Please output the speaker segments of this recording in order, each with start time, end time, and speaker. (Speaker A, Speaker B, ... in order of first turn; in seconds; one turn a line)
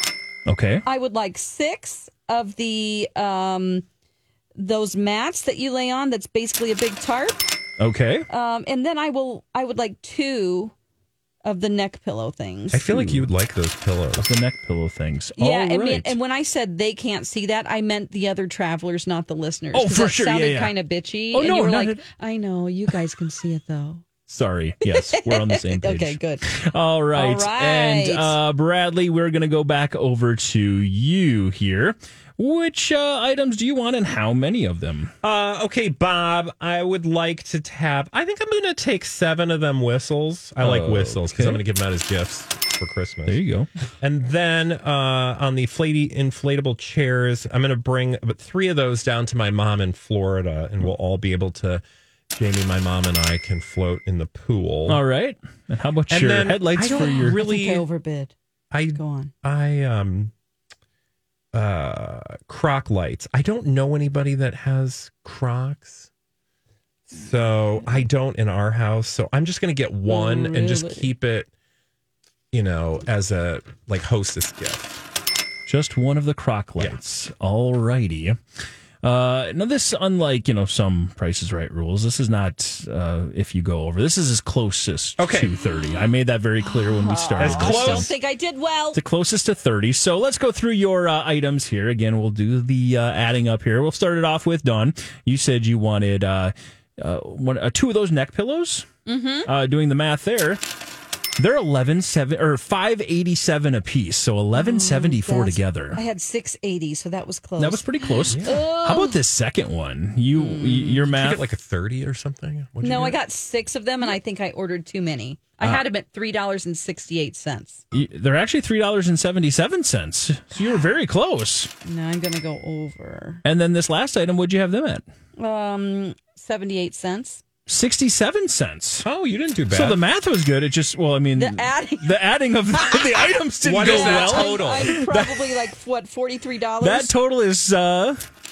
Speaker A: 0.5-0.8
Speaker B: 0.8-3.9
Speaker B: 4.6-7.5
Speaker A: 7.8-8.3
Speaker B: 8.3-10.7
Speaker B: 11.4-13.2
Speaker C: 12.7-14.3
Speaker A: 14.2-16.2
Speaker B: 15.4-24.0
Speaker A: 19.7-20.7
Speaker A: 21.3-22.0
Speaker A: 24.3-35.1
Speaker B: 24.9-26.5
Speaker B: 27.1-28.4
Speaker C: 35.2-43.4
Speaker A: 40.6-41.6
Speaker A: 43.3-43.7
Speaker C: 44.0-55.0
Speaker A: 54.9-57.4
Speaker C: 56.1-57.9
Speaker B: 56.8-58.3
Speaker C: 58.7-60.3
Speaker B: 59.0-59.3
Speaker C: 61.5-66.1
Speaker C: 67.1-71.5
Speaker B: 70.1-71.1
Speaker C: 72.5-75.0
Speaker A: 75.7-78.4
Speaker A: 79.0-88.1
Speaker C: 85.2-85.5
Speaker B: 86.6-89.0
Speaker C: 87.4-88.1
Speaker A: 88.9-98.9
Speaker B: 99.1-99.5
Speaker A: 99.5-100.6
Speaker A: 101.4-106.0
Speaker B: 104.5-109.2
Speaker A: 107.6-111.5
Speaker C: 108.3-108.6
Speaker B: 110.3-111.1
Speaker C: 111.1-113.2
Speaker B: 112.8-117.8
Speaker A: 117.9-121.7
Speaker B: 120.5-120.8
Speaker B: 121.8-123.4
Speaker A: 123.5-125.0
Speaker B: 125.4-127.4
Speaker A: 127.7-129.1
Speaker C: 129.0-130.0
Speaker A: 129.7-135.6
Speaker B: 131.3-132.2
Speaker B: 132.7-137.1
Speaker C: 133.6-135.1
Speaker A: 136.8-138.2